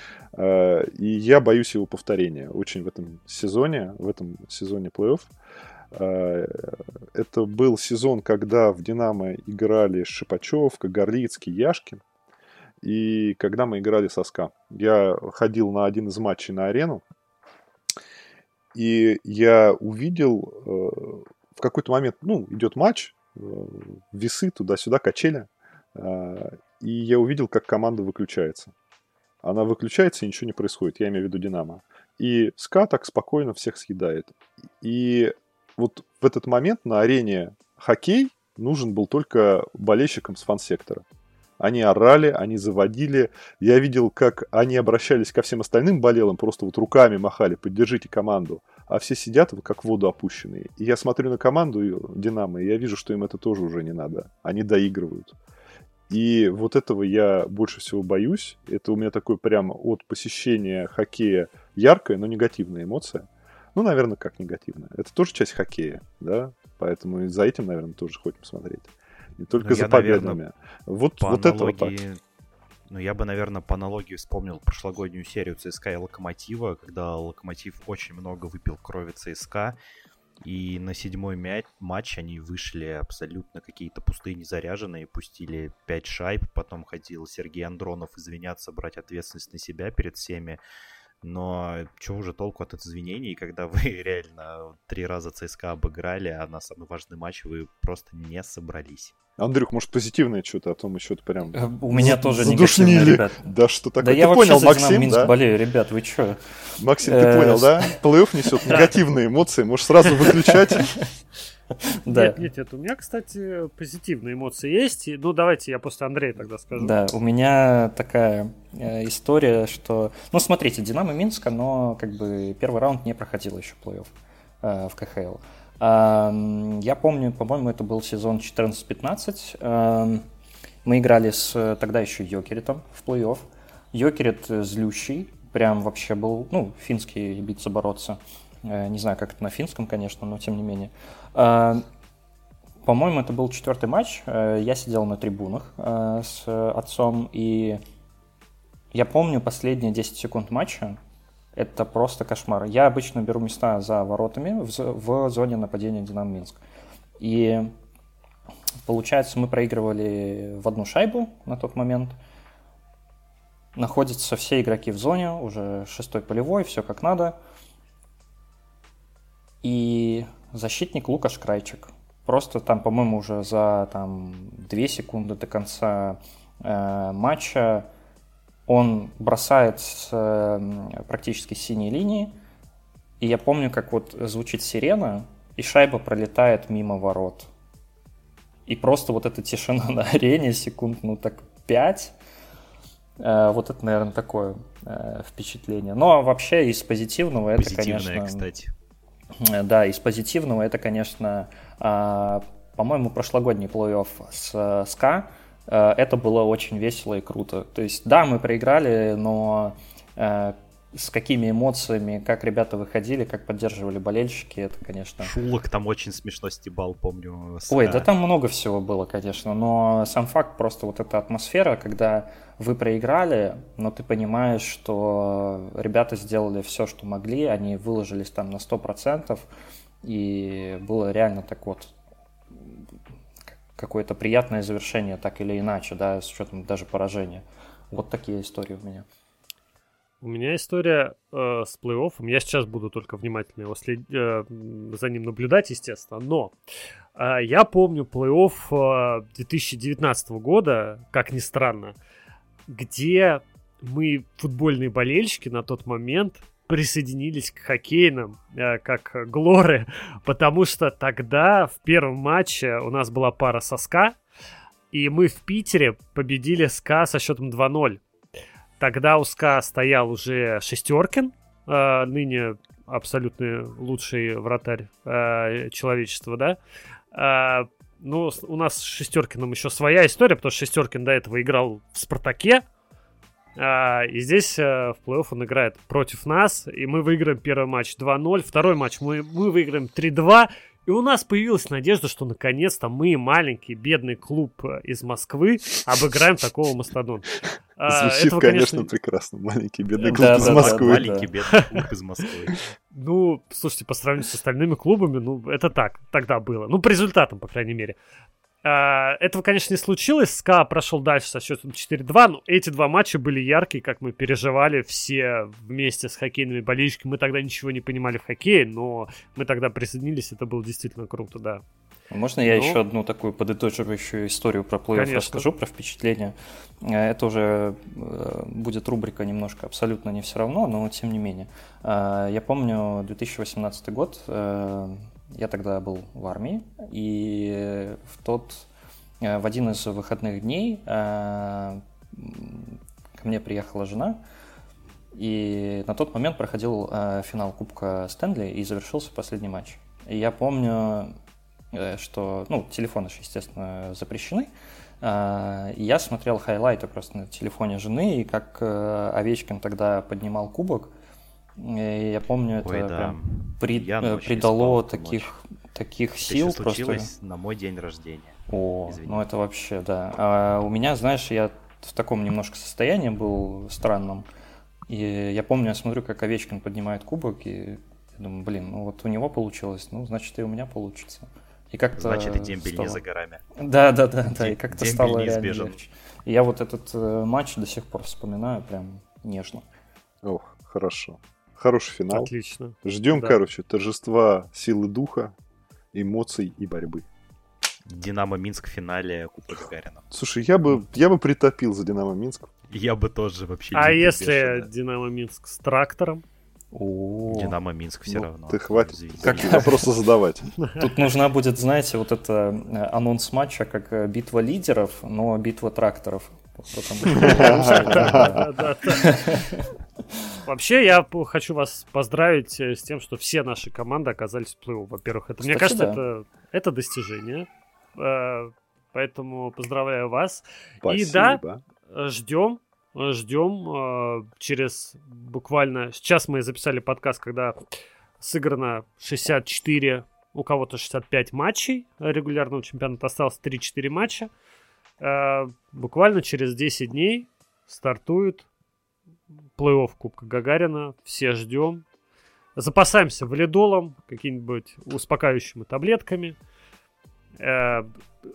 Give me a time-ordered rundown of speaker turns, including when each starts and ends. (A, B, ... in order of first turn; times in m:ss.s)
0:00.3-0:05.3 A
0:05.9-0:12.0 A
0:12.8-0:17.0 A
0:18.7-0:28.7 A
0:29.4-0:41.0 A
0:41.6-0:55.3 A
0:56.1-1:11.9 A
1:09.6-1:10.4 B
1:11.2-1:12.2 B
1:12.9-1:19.8 B
1:20.4-1:30.6 B
1:31.2-1:39.1 B
1:39.4-1:45.3 A
1:41.5-1:43.4 C
1:44.0-1:48.0 C
1:46.8-1:51.0 A
1:50.3-1:51.0 C
1:51.9-1:52.4 C
1:52.0-1:56.9 D
1:56.8-2:04.1 C
2:04.6-2:10.2 C
2:10.8-2:21.8 C
2:22.8-2:27.8 C
2:28.9-2:31.0 C
2:31.6-2:36.6 C
2:37.2-2:37.7 C
2:38.8-2:42.2 C
2:43.8-2:47.4 C
2:49.6-2:57.9 C
2:58.7-3:02.3 C
3:03.2-3:07.5 C
3:08.7-3:12.1 C
3:13.2-3:18.5 C
3:17.5-3:18.7 B
3:19.4-3:35.3 C
3:35.2-3:38.1 B
3:37.7-3:49.5 C
3:50.0-3:51.9 C
3:53.8-3:59.0 C
4:00.2-4:06.6 D
4:07.2-4:12.0 D
4:12.7-4:24.2 D
4:24.9-4:28.0 D
4:28.8-4:36.6 D
4:37.1-4:42.6 D
4:43.6-4:58.9 D
4:57.9-5:01.2 A
5:00.1-5:01.3 C
5:00.1-5:02.6 B
5:02.9-5:08.0 D
5:08.6-5:21.6 D
5:22.1-5:38.7 C
5:22.4-5:22.8 D
5:24.9-5:25.5 D
5:39.2-5:44.2 C
5:45.1-5:51.1 C
5:51.7-5:54.5 C
5:55.0-6:00.9 C
6:01.6-6:07.1 C
6:02.6-6:05.3 B
6:06.2-6:09.2 B
6:08.5-6:14.2 C
6:14.9-6:23.0 C
6:22.0-6:23.4 B
6:23.6-6:29.6 C
6:24.2-6:25.8 B
6:30.2-6:32.3 A
6:32.1-6:33.4 D
6:32.8-6:35.3 A
6:35.9-6:37.0 A
6:37.9-6:40.0 B
6:40.1-6:42.5 A
6:42.7-6:44.7 B
6:43.7-6:46.2 D
6:46.7-6:47.6 C
6:47.3-6:49.8 B
6:48.1-6:50.5 A
6:49.2-6:49.8 C
6:50.7-6:59.7 C
6:57.1-6:58.5 A
6:57.4-6:59.2 D
7:00.4-7:17.6 D
7:05.4-7:06.0 C
7:10.8-7:11.6 A
7:18.2-7:24.3 D
7:25.0-7:28.4 D
7:29.6-7:31.8 D
7:32.6-7:36.4 D
7:37.4-7:38.0 D